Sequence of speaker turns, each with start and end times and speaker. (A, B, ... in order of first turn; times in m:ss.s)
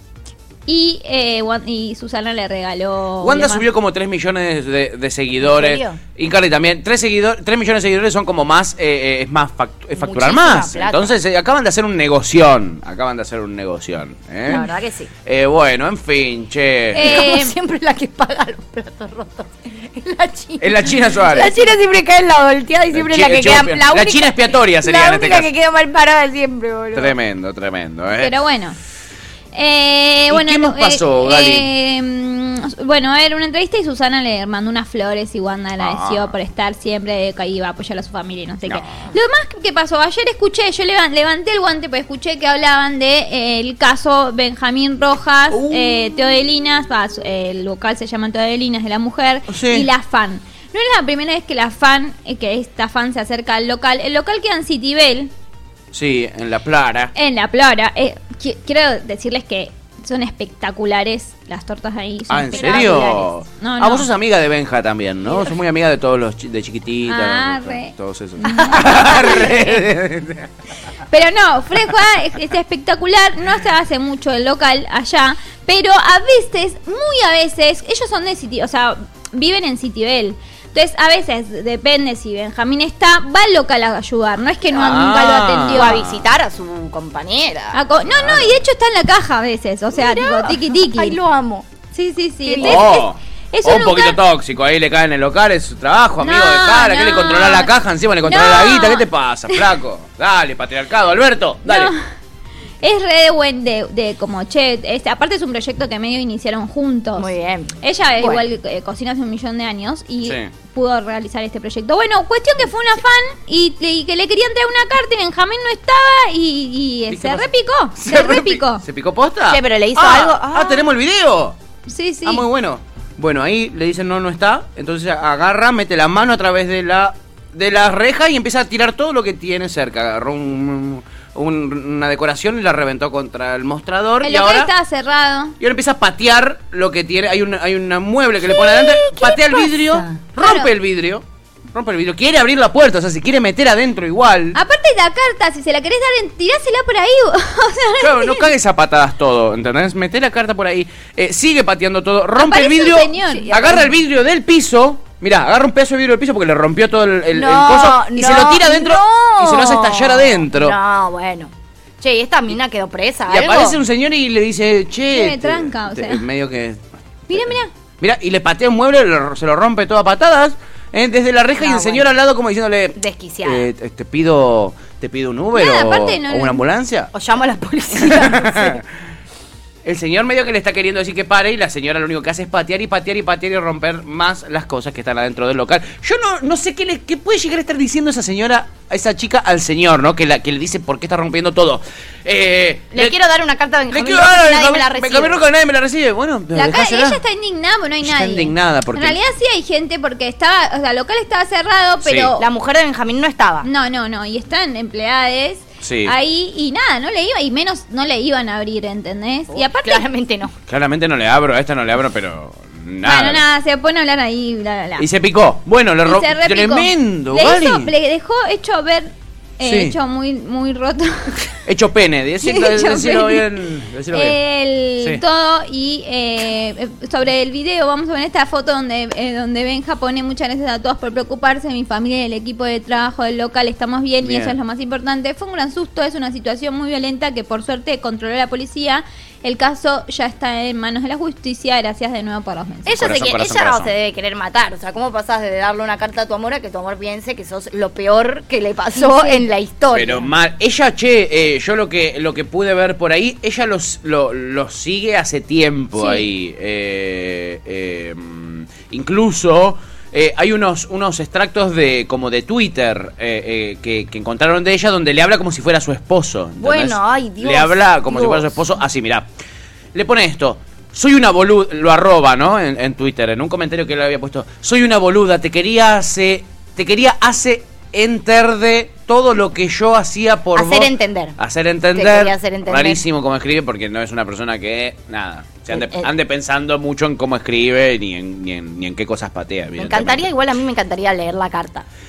0:00.7-0:03.7 A
0:03.2-0:14.7 B
0:05.4-0:06.0 C
0:10.0-0:11.1 C
0:14.5-0:15.1 C
0:15.2-0:17.1 B
0:16.9-0:17.5 A
0:17.0-0:27.1 C
0:20.6-0:21.5 B
0:22.9-0:25.5 B
0:26.9-0:28.4 B
0:28.2-0:28.8 A
0:29.5-0:55.3 A
0:30.3-0:31.7 B
0:35.8-0:36.3 B
0:38.6-0:39.0 B
0:45.5-0:46.1 B
0:49.5-0:49.9 B
0:55.9-0:57.1 B
0:57.1-1:04.1 A
1:02.3-1:10.5 B
1:02.5-1:03.1 C
1:07.1-1:09.7 A
1:08.5-1:09.4 C
1:11.1-1:26.0 A
1:24.7-1:26.2 B
1:25.7-1:27.8 C
1:27.7-1:31.2 A
1:28.1-1:28.6 B
1:29.9-1:31.7 C
1:31.9-1:34.2 A
1:32.4-1:32.9 C
1:32.6-1:41.9 B
1:36.2-1:37.7 A
1:38.2-1:39.6 A
1:41.6-1:42.0 A
1:42.8-1:58.8 A
1:47.2-1:48.4 C
1:50.2-1:50.5 B
1:57.1-2:01.6 B
1:59.5-2:00.9 C
2:01.9-2:02.4 A
2:02.2-2:14.7 B
2:14.2-2:15.5 A
2:15.6-2:24.6 B
2:18.4-2:20.2 C
2:20.4-2:20.7 A
2:24.5-2:28.5 A
2:28.0-2:40.7 B
2:32.4-2:33.5 A
2:33.2-2:33.9 C
2:37.3-2:43.8 C
2:43.3-2:57.1 B
2:45.1-2:46.2 A
2:47.3-2:47.7 A
2:51.6-2:52.1 C
2:53.0-2:53.7 C
2:55.5-2:56.6 A
2:57.1-2:58.8 C
2:58.0-2:58.8 B
2:59.8-3:13.1 B
3:12.9-3:15.4 C
3:13.9-3:17.2 B
3:16.5-3:22.4 A
3:18.0-3:19.2 B
3:22.0-3:22.3 B
3:22.4-3:23.7 C
3:23.6-3:30.0 A
3:25.8-3:26.1 B
3:29.5-3:30.5 C
3:30.7-3:33.4 B
3:33.0-3:35.0 A
3:35.0-3:37.9 B
3:36.0-3:41.5 A
3:39.6-3:39.9 B
3:41.6-3:44.4 B
3:42.4-3:43.4 A
3:44.1-4:03.1 A
3:54.2-3:54.5 B
4:02.8-4:10.3 C
4:03.0-4:03.9 B
4:09.0-4:09.4 A
4:09.9-4:29.3 B
4:16.0-4:16.3 A
4:26.6-4:28.6 C
4:29.9-4:50.3 B
4:40.5-4:41.4 C
4:41.9-4:43.0 C
4:45.7-4:46.1 C
4:49.8-4:51.8 C